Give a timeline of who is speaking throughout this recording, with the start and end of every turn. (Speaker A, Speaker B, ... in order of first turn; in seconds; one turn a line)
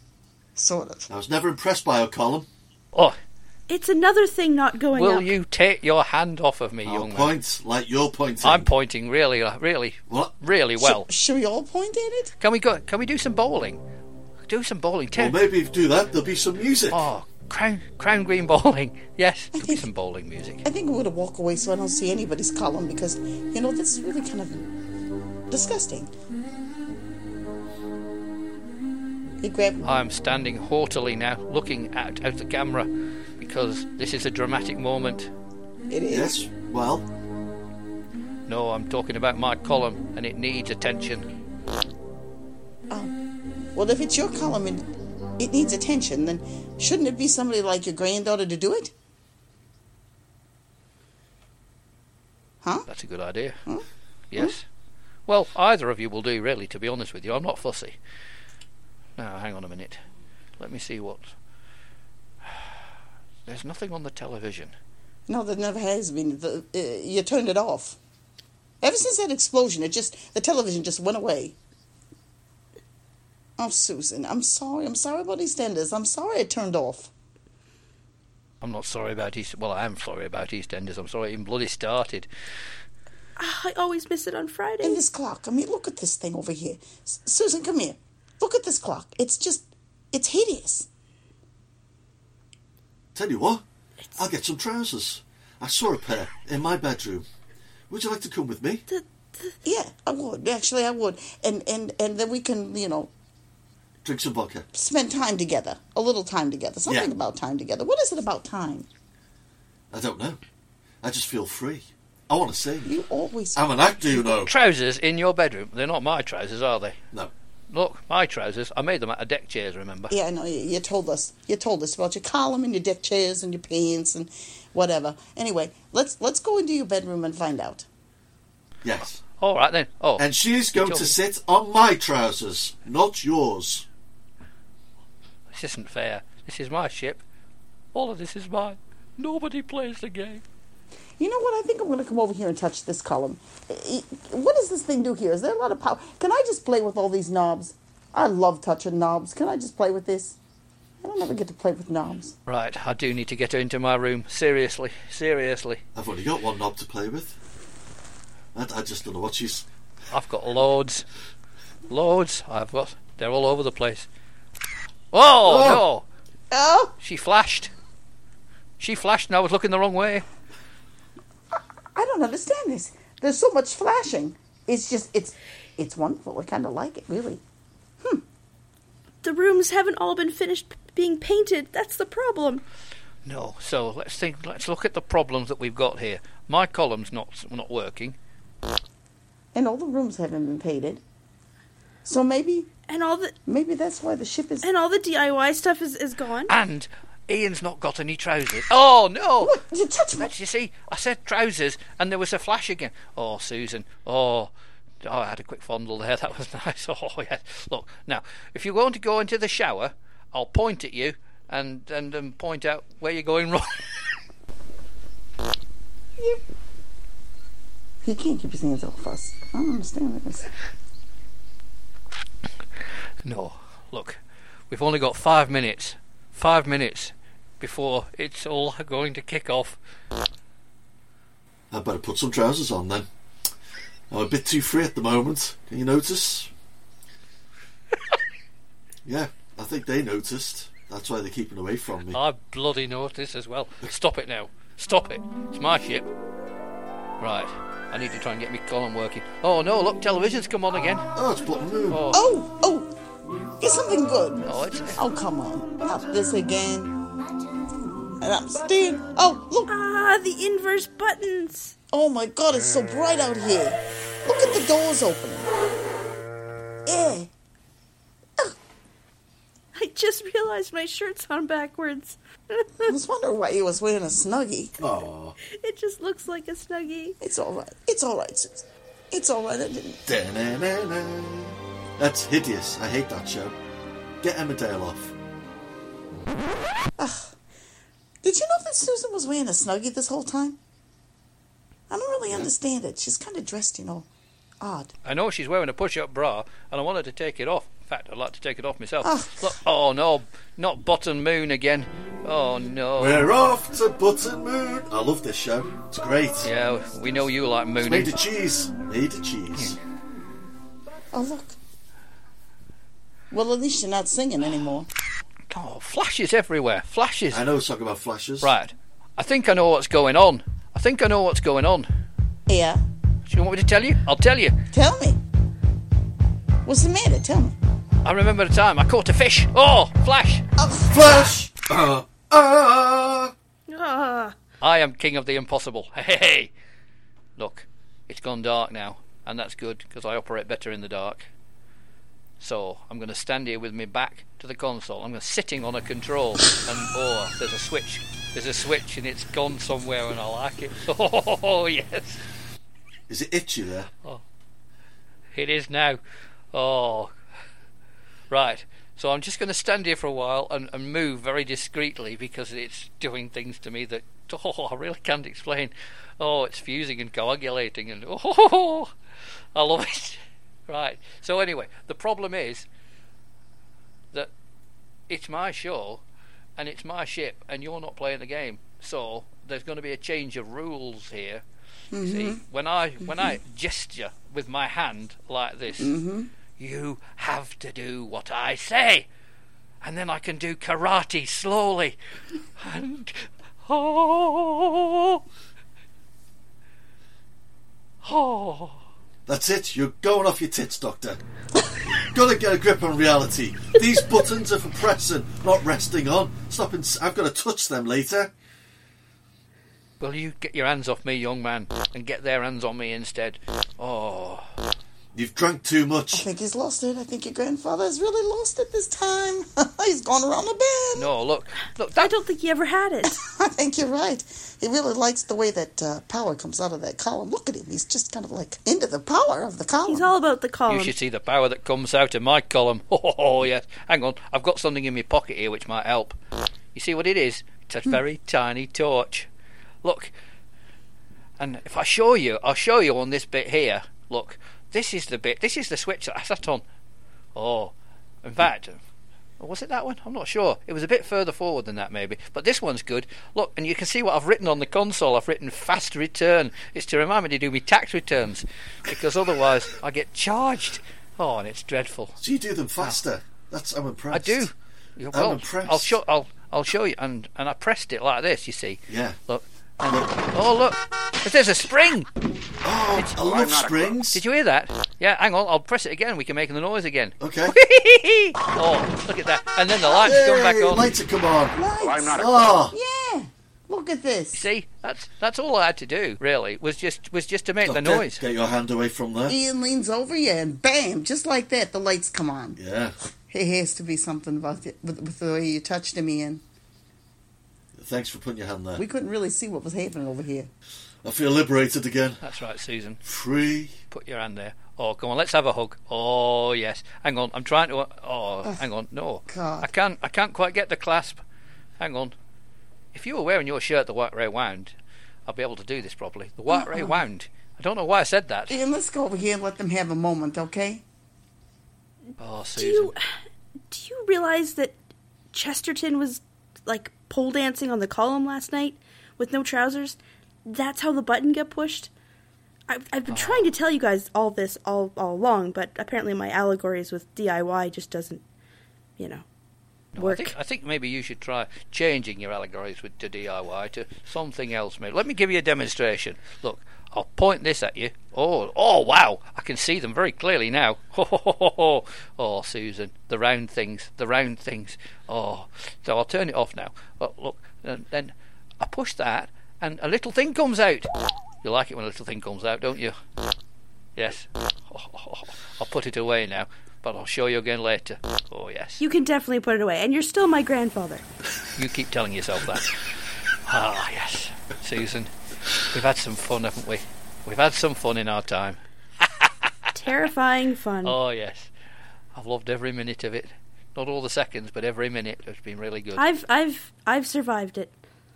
Speaker A: 0.6-1.1
Speaker B: 1.1-2.5
Speaker C: 3.7-5.3
Speaker D: 4.9-7.3
Speaker B: 6.8-8.7
Speaker D: 8.4-11.1
Speaker A: 10.8-12.3
Speaker D: 12.4-13.8
Speaker D: 14.5-15.4
Speaker B: 15.1-17.0
Speaker D: 16.9-20.6
Speaker A: 19.5-19.9
Speaker A: 20.6-24.7
Speaker A: 25.5-26.1
Speaker A: 29.4-29.9
Speaker D: 29.8-35.3
Speaker A: 35.9-36.5
Speaker B: 36.1-37.1
Speaker D: 38.5-41.3
Speaker A: 43.7-44.9
Speaker A: 45.4-48.9
Speaker A: 52.6-52.9
Speaker D: 52.9-53.6
Speaker D: 54.3-54.6
Speaker D: 55.3-58.0
Speaker D: 59.2-60.0
Speaker D: 60.6-61.3
Speaker D: 62.4-62.7
Speaker D: 63.5-64.7
Speaker A: 65.3-68.0
Speaker A: 68.8-71.5
Speaker A: 73.6-77.1
Speaker D: 78.6-82.3
Speaker C: 83.4-85.0
Speaker A: 84.8-90.9
Speaker B: 93.1-93.6
Speaker B: 94.2-97.2
Speaker B: 97.9-98.8
Speaker C: 98.9-99.5
Speaker A: 99.6-103.1
Speaker B: 104.0-104.6
Speaker A: 104.7-108.9
Speaker B: 109.9-110.4
Speaker B: 111.0-112.9
Speaker A: 112.8-113.6
Speaker B: 113.5-114.5
Speaker D: 114.3-117.0
Speaker D: 117.7-120.1
Speaker A: 120.1-127.9
Speaker B: 128.8-129.2
Speaker D: 129.4-131.1
Speaker B: 130.2-133.8
Speaker D: 135.5-137.2
Speaker D: 137.9-140.4
Speaker A: 141.2-150.3
Speaker A: 151.0-152.3
Speaker D: 152.4-155.8
Speaker B: 155.9-157.3
Speaker B: 158.5-159.6
Speaker D: 160.1-161.1
Speaker D: 161.9-164.1
Speaker D: 165.1-166.0
Speaker B: 165.4-165.8
Speaker A: 166.5-166.9
Speaker D: 167.0-167.7
Speaker D: 168.8-170.2
Speaker A: 171.6-177.4
Speaker C: 179.2-182.6
Speaker D: 183.2-188.2
Speaker A: 189.5-191.0
Speaker A: 192.0-192.7
Speaker C: 192.9-193.3
Speaker A: 193.4-194.7
Speaker C: 194.6-196.5
Speaker D: 196.5-199.6
Speaker A: 199.4-200.3
Speaker D: 200.2-204.5
Speaker D: 205.0-213.8
Speaker A: 218.0-220.5
Speaker D: 223.2-224.2
Speaker D: 224.7-229.8
Speaker B: 231.7-233.1
Speaker B: 234.1-236.5
Speaker B: 239.0-242.2
Speaker D: 242.1-246.1
Speaker D: 247.2-251.1
Speaker B: 251.1-252.1
Speaker D: 251.9-252.2
Speaker A: 252.1-252.9
Speaker A: 253.6-254.4
Speaker D: 254.4-255.0
Speaker A: 254.9-256.9
Speaker A: 258.2-259.7
Speaker C: 259.7-261.7
Speaker A: 261.9-265.5
Speaker A: 266.9-267.3
Speaker C: 269.7-272.9
Speaker A: 272.9-274.8
Speaker B: 274.8-275.4
Speaker C: 275.4-277.2
Speaker A: 277.2-280.0
Speaker B: 280.1-283.5
Speaker B: 284.2-285.1
Speaker A: 287.0-287.3
Speaker A: 288.2-290.6
Speaker A: 291.9-294.1
Speaker A: 294.6-294.9
Speaker D: 295.0-303.3
Speaker A: 299.0-299.6
Speaker B: 303.0-306.5
Speaker D: 306.4-308.1
Speaker B: 307.8-309.8
Speaker A: 311.1-311.6
Speaker A: 313.3-314.9
Speaker D: 315.5-317.4
Speaker B: 317.3-318.5
Speaker D: 318.4-321.9
Speaker A: 322.5-322.8
Speaker D: 323.2-324.5
Speaker A: 324.7-325.2
Speaker A: 326.6-327.6
Speaker D: 328.0-330.4
Speaker A: 330.6-331.5
Speaker B: 330.9-333.3
Speaker C: 333.7-334.4
Speaker D: 334.6-336.5
Speaker D: 337.4-341.3
Speaker D: 342.4-352.2
Speaker B: 353.1-353.9
Speaker D: 355.3-356.0
Speaker D: 356.5-357.1
Speaker D: 358.3-368.9
Speaker D: 369.5-372.7
Speaker D: 375.1-376.0
Speaker D: 376.6-381.4
Speaker A: 381.9-382.4
Speaker D: 382.0-385.9
Speaker A: 383.1-383.3
Speaker A: 385.8-386.3
Speaker D: 386.6-389.1
Speaker D: 389.8-392.0
Speaker D: 392.6-395.2
Speaker D: 398.0-398.8
Speaker B: 399.3-401.2
Speaker B: 401.9-408.3
Speaker D: 410.0-414.5
Speaker B: 415.1-416.2
Speaker A: 416.1-421.1
Speaker D: 420.9-422.1
Speaker C: 421.9-423.1
Speaker A: 423.1-430.1
Speaker C: 429.9-430.9
Speaker D: 430.7-436.2
Speaker D: 436.7-439.3
Speaker D: 439.8-440.1
Speaker D: 441.4-446.6
Speaker D: 447.3-448.8
Speaker D: 449.4-462.2
Speaker B: 462.2-464.5
Speaker D: 464.1-472.1
Speaker B: 465.1-465.9
Speaker B: 468.9-469.2
Speaker B: 469.8-470.2
Speaker B: 472.6-474.2
Speaker D: 472.9-473.3
Speaker D: 474.1-480.9
Speaker B: 477.2-477.6
Speaker B: 480.0-481.6
Speaker A: 481.5-484.5
Speaker B: 482.1-482.7
Speaker D: 484.3-488.2
Speaker B: 487.6-489.4
Speaker A: 489.3-492.6
Speaker B: 492.6-492.9
Speaker A: 493.3-496.4
Speaker B: 497.8-498.8
Speaker A: 498.8-500.5
Speaker B: 501.0-502.2
Speaker D: 502.2-503.0
Speaker B: 503.0-503.8
Speaker D: 503.9-511.2
Speaker A: 509.3-509.7
Speaker D: 511.8-512.1
Speaker D: 512.9-514.7
Speaker D: 515.3-518.6
Speaker A: 516.5-517.0
Speaker A: 518.5-520.8
Speaker D: 522.2-522.9
Speaker C: 522.5-523.0
Speaker C: 523.7-524.8
Speaker C: 525.3-531.9
Speaker C: 532.7-538.2
Speaker D: 533.1-533.5
Speaker C: 539.0-539.2
Speaker D: 539.9-560.9
Speaker C: 540.0-540.4
Speaker D: 561.4-563.0
Speaker D: 564.0-568.8
Speaker C: 568.8-571.0
Speaker D: 571.5-572.7
Speaker D: 573.5-575.1
Speaker D: 575.7-579.7
Speaker C: 579.7-581.0
Speaker D: 580.8-581.5
Speaker D: 582.1-586.0
Speaker C: 585.9-587.8